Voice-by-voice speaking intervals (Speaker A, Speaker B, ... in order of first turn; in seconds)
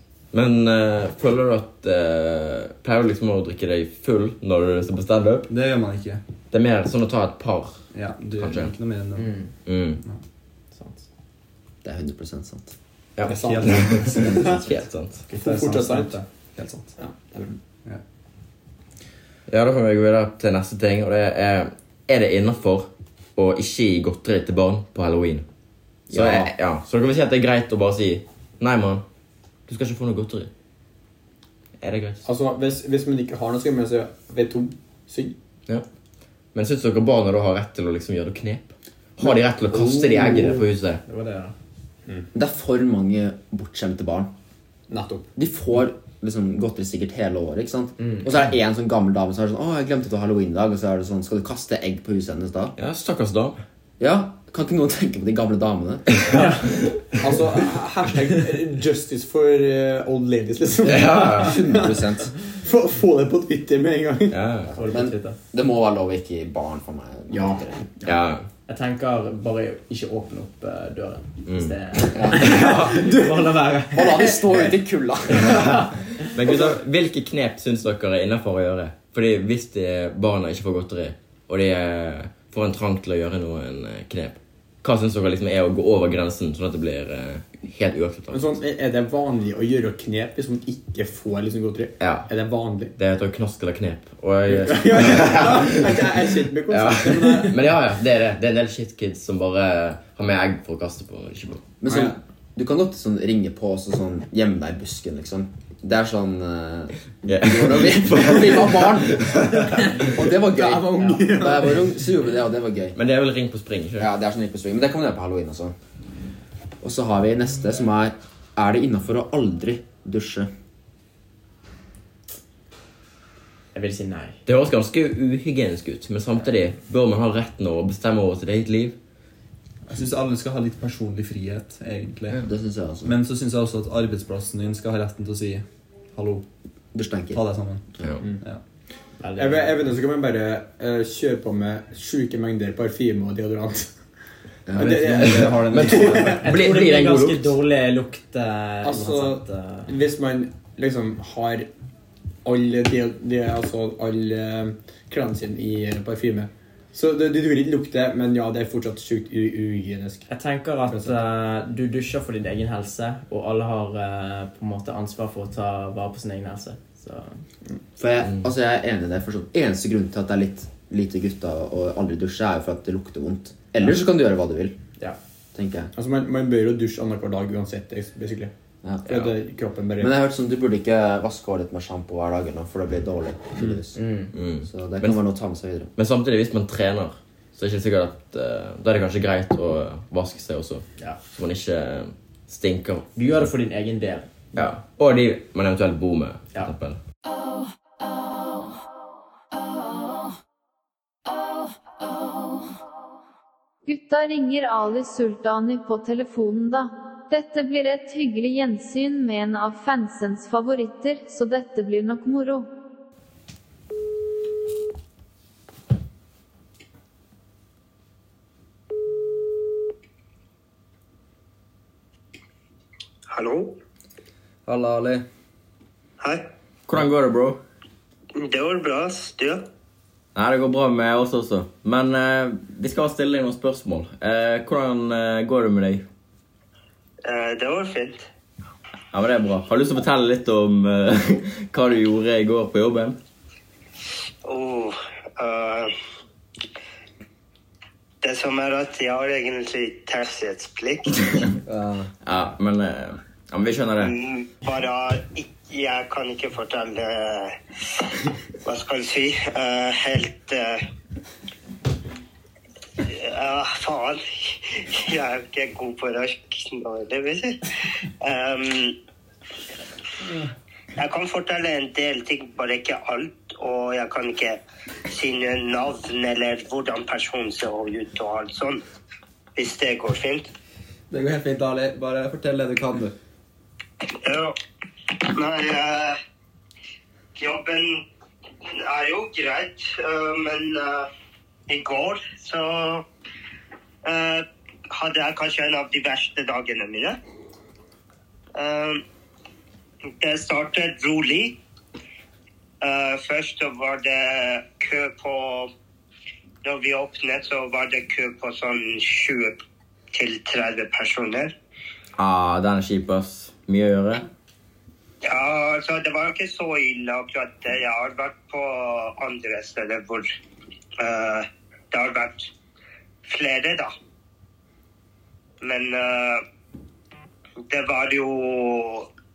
Speaker A: 0.3-5.5, 6.5-7.9, 8.4-8.7, 9.7-10.0, 13.2-15.2, 19.5-25.4, 26.1-29.0, 29.7-30.5, 31.8-32.2, 36.5-41.0, 52.8-53.6, 56.3-56.7, 60.8-61.6, 64.3-64.7, 68.0-68.5, 71.5-71.7, 72.4-72.9, 75.4-88.5, 92.0-92.3, 93.0-101.6, 107.2-110.1, 113.0-114.1, 124.5-129.0, 145.7-147.5, 184.3-185.2, 185.9-193.1, 194.5-197.0, 226.9-227.6, 230.3-236.0, 239.1-243.2, 252.2-254.2, 312.2-314.3
Speaker B: 5.5-6.2, 7.9-9.3, 13.2-14.6, 15.3-16.9, 129.9-132.4, 133.0-136.4, 137.3-137.8, 144.8-146.4, 224.7-225.2, 281.1-283.1
Speaker C: 9.2-9.5, 10.7-11.0, 39.8-41.5, 48.0-48.2, 56.3-56.6, 64.7-65.4, 67.3-68.1, 68.7-74.7, 75.6-76.3, 111.0-111.3, 123.7-124.4, 139.2-139.7, 146.4-149.9, 160.3-167.4, 183.9-184.3, 193.2-194.3
Speaker D: 11.8-12.7, 26.1-26.5, 42.3-44.3, 45.4-52.7, 54.0-56.4, 61.4-62.3, 64.8-67.6, 72.1-72.7, 73.9-75.7, 101.8-113.0, 114.0-115.7, 116.8-120.5, 132.4-133.2, 136.9-137.4, 144.7-145.4, 168.0-174.8, 175.5-175.9, 180.0-184.0, 184.6-185.9, 224.7-225.2, 251.7-252.1
Speaker E: 13.3-14.6, 15.3-16.2, 17.0-17.6, 32.2-35.3, 44.9-45.3, 57.2-64.4, 67.3-68.1, 72.7-73.4, 88.3-92.9, 94.5-97.6, 110.4-112.0, 139.3-143.9, 144.7-146.4, 148.8-151.7, 152.4-160.3, 160.9-161.1, 175.9-178.5, 179.1-180.1
Speaker F: 203.8-212.7
Speaker G: 223.3-223.8, 226.2-226.5, 228.3-229.7, 237.2-238.3, 244.4-245.9, 248.2-251.5, 254.0-258.1, 258.6-260.8, 263.0-267.7, 268.2-268.9, 271.0-278.8, 279.6-280.5, 284.2-284.6, 285.2-286.2, 287.4-288.0, 288.6-291.1, 291.7-293.1, 294.0-297.2, 298.5-299.0, 300.2-301.6, 302.8-305.7, 306.6-309.6, 310.1-311.5, 315.2-320.3, 321.0-322.5, 323.2-323.9, 325.6-326.4, 327.6-329.1